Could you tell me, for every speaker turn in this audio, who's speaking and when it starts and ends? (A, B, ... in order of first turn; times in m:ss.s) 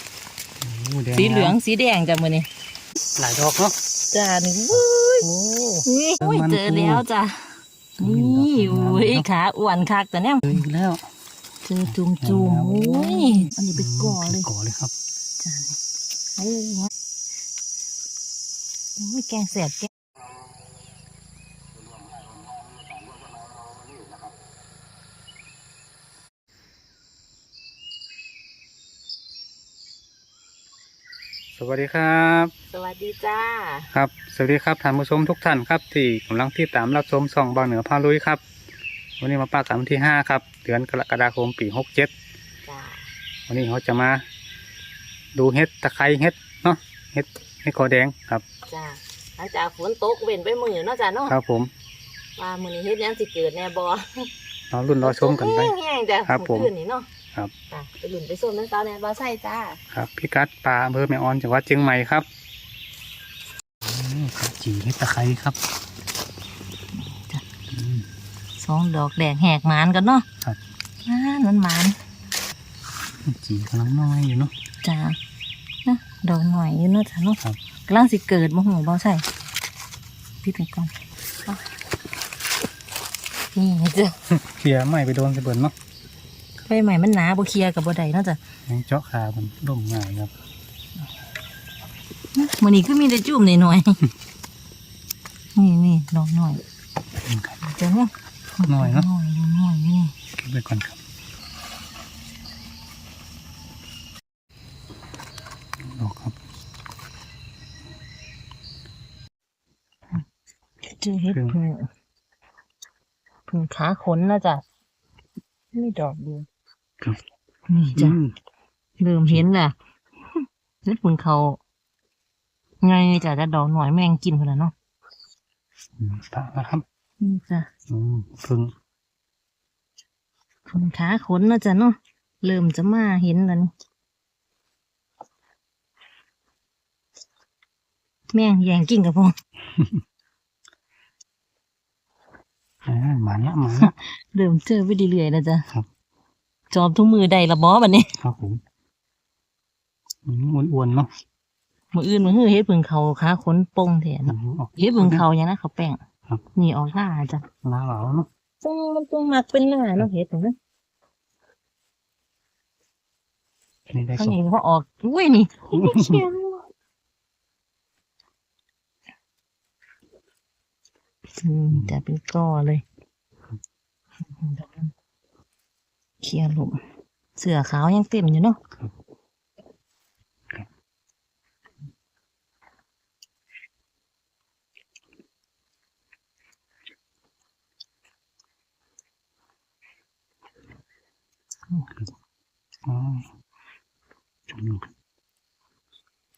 0:00.6-0:01.6 A
0:01.1-0:02.5 B
0:03.2-0:03.8 A
0:04.1-0:05.2 B
0:04.7-0:07.0 A
0:05.8-0:07.5 B
0:08.0-0:09.2 A
0:08.0-0:10.6 B
0:10.4-0:11.0 A
0:11.6-0:14.5 B
0:11.8-0:14.9 A
0:15.4-0:15.8 B
0:16.4-0:16.9 B
0:19.0-0:19.9 B
0:31.6-0:32.5 A
0:32.7-0:33.9 B
0:33.9-0:38.4 A
0:39.2-0:42.1 A
0:42.6-0:43.1 B
0:43.5-0:44.2 A
0:45.3-0:48.4 A
0:48.7-0:51.3 B
0:51.3-0:51.7 A
0:52.4-0:54.3 B
0:54.7-0:55.7 A
0:55.0-0:57.1 B
0:56.2-0:56.7 A
0:57.7-0:59.8 B
0:59.9-1:02.2 A
1:03.8-1:05.6 A
1:07.0-1:07.4 B
1:07.7-1:08.1 A
1:08.6-1:10.2 B
1:11.0-1:12.0 B
1:13.2-1:14.5 A
1:14.8-1:15.2 B
1:15.8-1:19.2 B
1:20.4-1:20.9 B
1:23.5-1:24.1 B
1:24.3-1:25.7 A
1:26.6-1:28.4 B
1:28.7-1:30.3 A
1:32.4-1:34.0 B
1:35.5-1:36.6 B
1:37.2-1:37.6 A
1:37.6-1:40.1 B
1:38.6-1:39.1 A
1:40.4-1:41.0 A
1:45.8-1:46.3 A
1:51.0-1:51.9 B
1:51.3-1:51.6 A
1:53.5-1:54.6 B
1:55.7-1:56.4 B
1:57.7-1:58.2 B
1:57.9-1:58.3 A
1:59.0-1:59.7 B
2:00.8-2:01.6 B
2:02.8-2:04.7 B
2:06.0-2:06.8 A
2:07.2-2:07.7 B
2:07.9-2:08.7 A
2:10.7-2:13.7 B
2:18.3-2:19.3 B
2:19.8-2:20.0 A
2:22.8-2:23.9 A
2:23.7-2:25.7 B
2:26.7-2:28.1 B
2:28.2-2:28.6 A
2:30.2-2:31.1 A
2:31.9-2:36.0 B
2:34.2-2:35.2 A
2:36.5-2:37.4 B
2:37.6-2:38.3 A
2:38.6-2:40.6 B
2:43.9-2:44.4 A
2:44.1-2:46.6 B
2:45.7-2:46.2 A
2:51.4-2:52.8 B
2:51.7-2:52.0 A
2:54.4-2:54.9 B
2:56.2-2:56.8 B
2:57.4-2:58.6 B
3:12.8-3:13.3 A
3:14.5-3:14.9 A